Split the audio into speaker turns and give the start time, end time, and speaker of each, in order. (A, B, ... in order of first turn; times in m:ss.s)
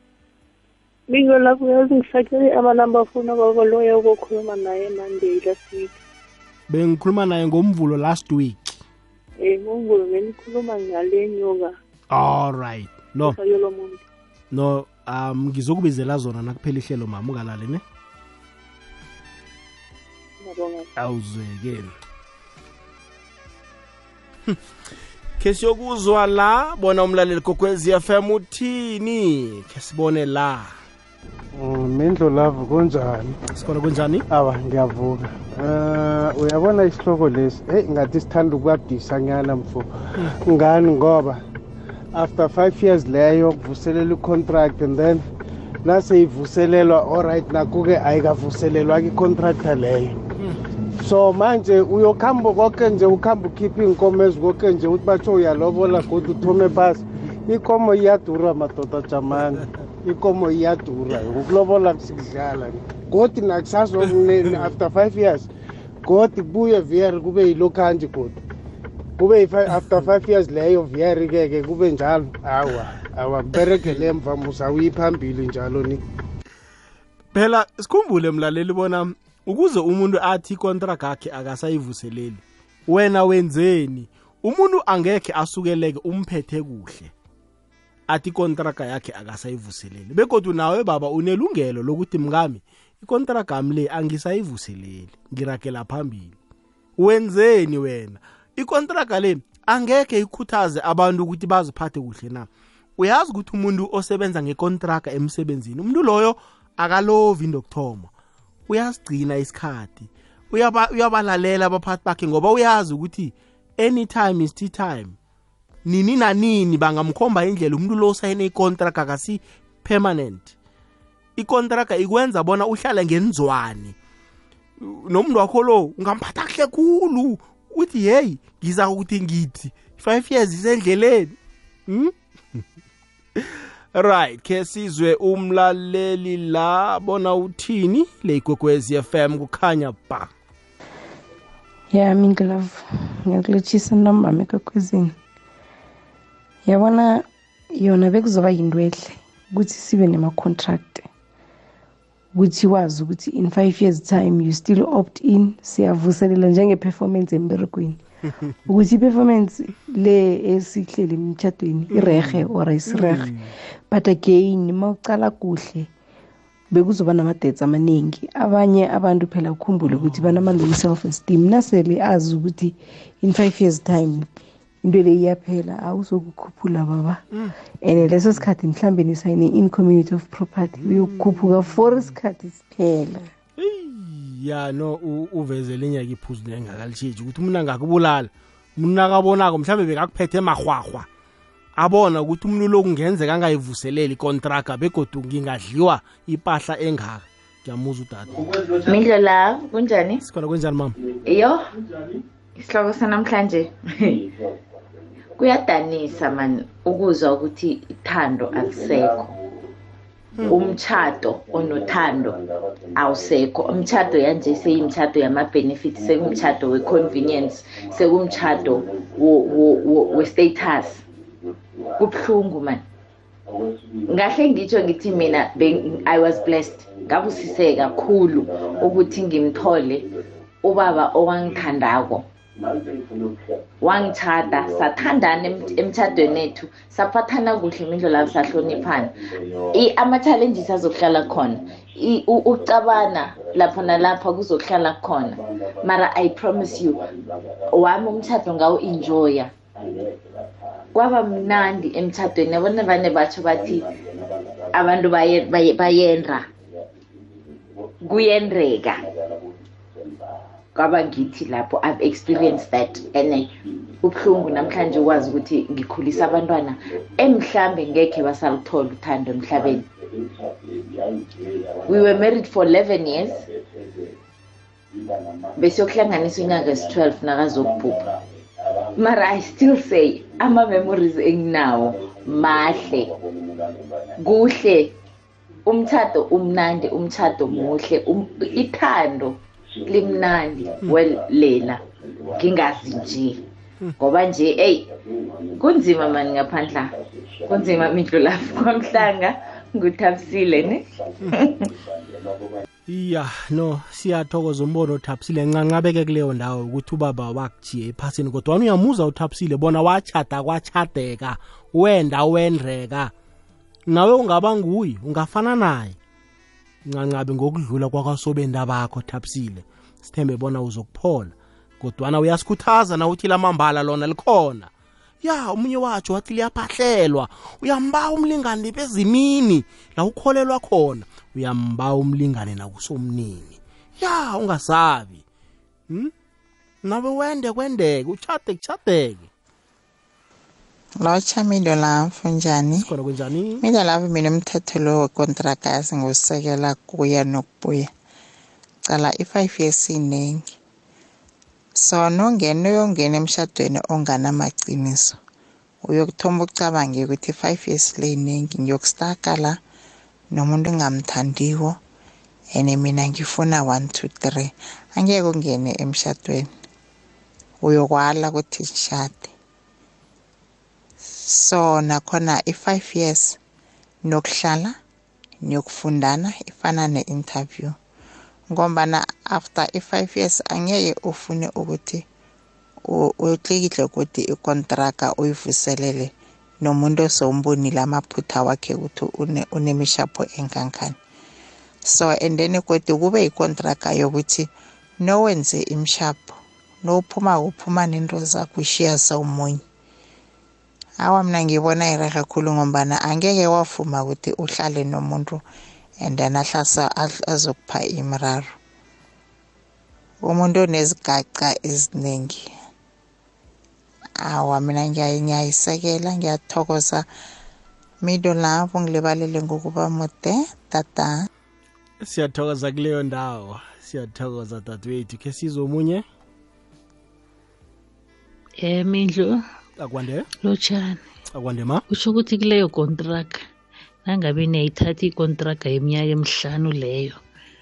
0:01.1-0:06.0 A
0:06.7-0:08.8 B
0:09.4-0:11.7 A
0:12.1-0:13.4 B
0:13.2-0:14.0 A
0:14.5-0:17.8 B
0:20.4-0:20.9 A
0:21.0-0:22.0 B
0:25.4-0:30.7 B
0:31.6-0:33.4 C
0:33.6-0:34.2 B
0:34.3-0:39.9 C
0:40.4-0:41.4 C
0:42.1-0:45.2 C
0:45.8-0:50.2 C
0:51.0-1:05.5 C
1:06.0-1:08.4 C
1:09.2-1:16.0 C
1:17.3-1:27.1 B
1:28.1-1:36.4 B
1:37.0-1:48.1 B
1:48.7-1:55.1 B
1:55.8-2:00.6 B
2:01.4-2:04.0 B
2:04.8-2:11.3 B
2:11.9-2:12.1 B
2:13.9-2:20.3 B
2:21.9-2:22.7 D
2:23.3-2:25.1 D
2:26.7-2:27.2 D
2:27.8-2:31.0 D
2:32.4-2:38.0 D
2:38.7-2:43.2 D
2:41.9-2:43.5 B
2:43.9-2:45.9 D
2:46.7-2:54.3 D
2:54.8-2:57.2 D
2:57.8-3:03.3 D
3:00.8-3:01.8 B
3:03.6-3:11.1 B
3:11.8-3:18.4 B
3:18.8-3:20.2 E
3:20.2-3:21.0 B
3:21.2-3:21.6 E
3:22.6-3:24.2 E
3:25.4-3:29.3 E
3:30.5-3:32.4 E
3:33.0-3:41.0 E
3:42.0-3:42.8 E
3:44.1-3:50.1 E
3:50.6-3:52.2 E
3:53.8-3:59.1 E
3:59.7-4:07.0 E
4:07.7-4:09.5 E
4:11.0-4:13.9 E
4:14.7-4:16.4 E
4:18.0-4:19.0 E
4:20.7-4:29.8 E
4:31.9-4:33.4 E
4:35.6-4:38.0 E
4:39.0-4:43.1 E
4:44.2-4:44.9 E
4:45.7-4:53.4 E
4:54.0-4:54.8 E
4:55.6-4:56.9 E
4:57.5-5:01.5 E
5:02.9-5:13.1 B
5:13.9-5:16.0 B
5:16.9-5:24.7 B
5:25.2-5:35.2 B
5:36.8-5:39.3 B
5:41.0-5:42.9 F
5:42.8-5:43.6 B
5:43.6-5:47.9 F
5:48.9-5:50.4 F
5:51.8-5:55.2 F
5:55.8-5:59.6 F
6:00.3-6:01.8 F
6:02.6-6:06.5 F
6:07.6-6:09.3 F
6:11.1-6:13.4 F
6:14.0-6:14.8 F
6:15.4-6:17.7 F
6:18.5-6:22.0 F
6:22.9-6:31.0 F
6:31.9-6:34.5 F
6:35.0-6:39.6 F
6:41.0-6:45.4 F
6:46.0-6:48.5 F
6:50.2-6:52.5 F
6:54.2-6:57.0 F
6:58.0-7:01.3 F
7:02.0-7:06.0 B
7:08.7-7:09.3 G
7:09.8-7:10.3 B
7:10.5-7:10.9 G
7:11.3-7:11.8 B
7:12.0-7:13.3 G
7:14.1-7:17.1 G